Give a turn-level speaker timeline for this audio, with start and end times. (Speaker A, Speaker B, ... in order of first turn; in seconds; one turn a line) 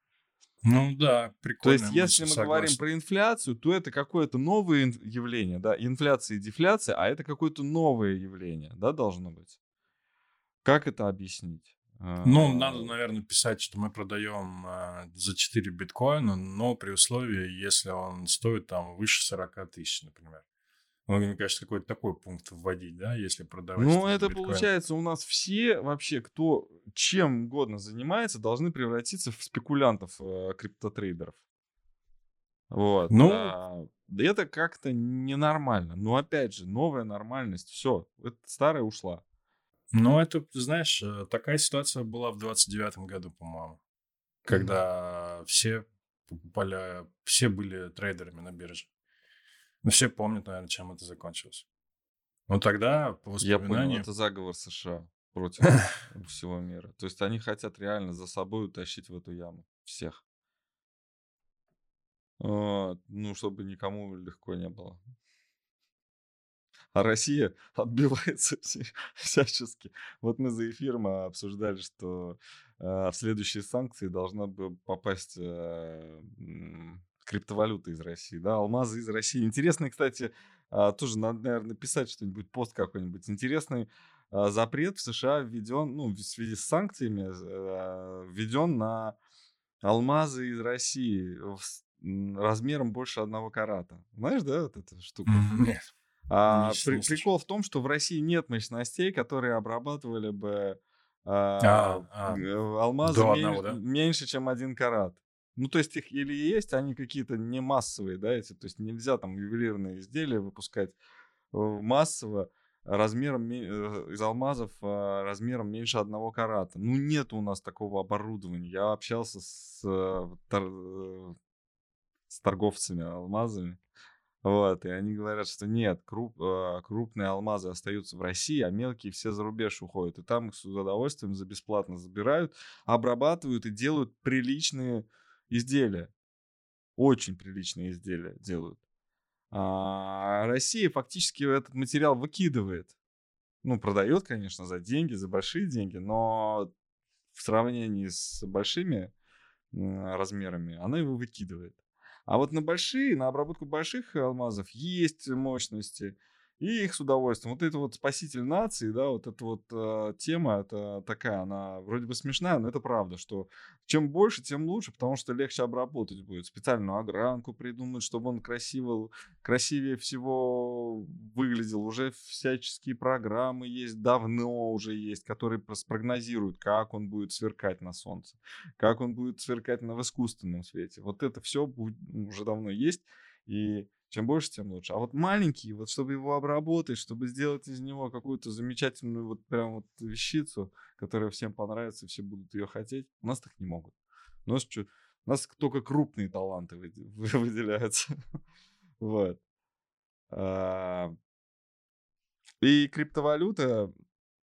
Speaker A: 0.6-2.8
Speaker B: 1.6-9.6
Speaker B: 10.6-12.9
Speaker A: 12.2-20.4
Speaker A: 21.1-24.7
Speaker B: 23.8-31.4
Speaker B: 32.7-39.2
Speaker A: 33.1-33.6
Speaker A: 39.9-43.8
Speaker A: 44.5-48.9
Speaker A: 49.8-51.7
Speaker A: 52.5-54.1
Speaker B: 53.4-60.2
Speaker B: 62.4-65.0
Speaker B: 66.9-89.2
Speaker B: 89.8-95.5
Speaker A: 95.3-95.8
Speaker B: 96.3-111.0
Speaker A: 96.5-97.3
Speaker A: 101.6-102.5
Speaker A: 103.0-103.8
Speaker B: 111.5-121.4
Speaker B: 122.3-123.8
Speaker B: 124.4-136.1
Speaker B: 137.0-138.8
Speaker B: 139.5-142.9
Speaker B: 143.6-146.7
Speaker B: 147.3-149.1
Speaker B: 149.7-193.9
Speaker B: 194.5-198.1
Speaker B: 199.0-199.4
Speaker B: 200.3-201.1
Speaker B: 202.6-203.9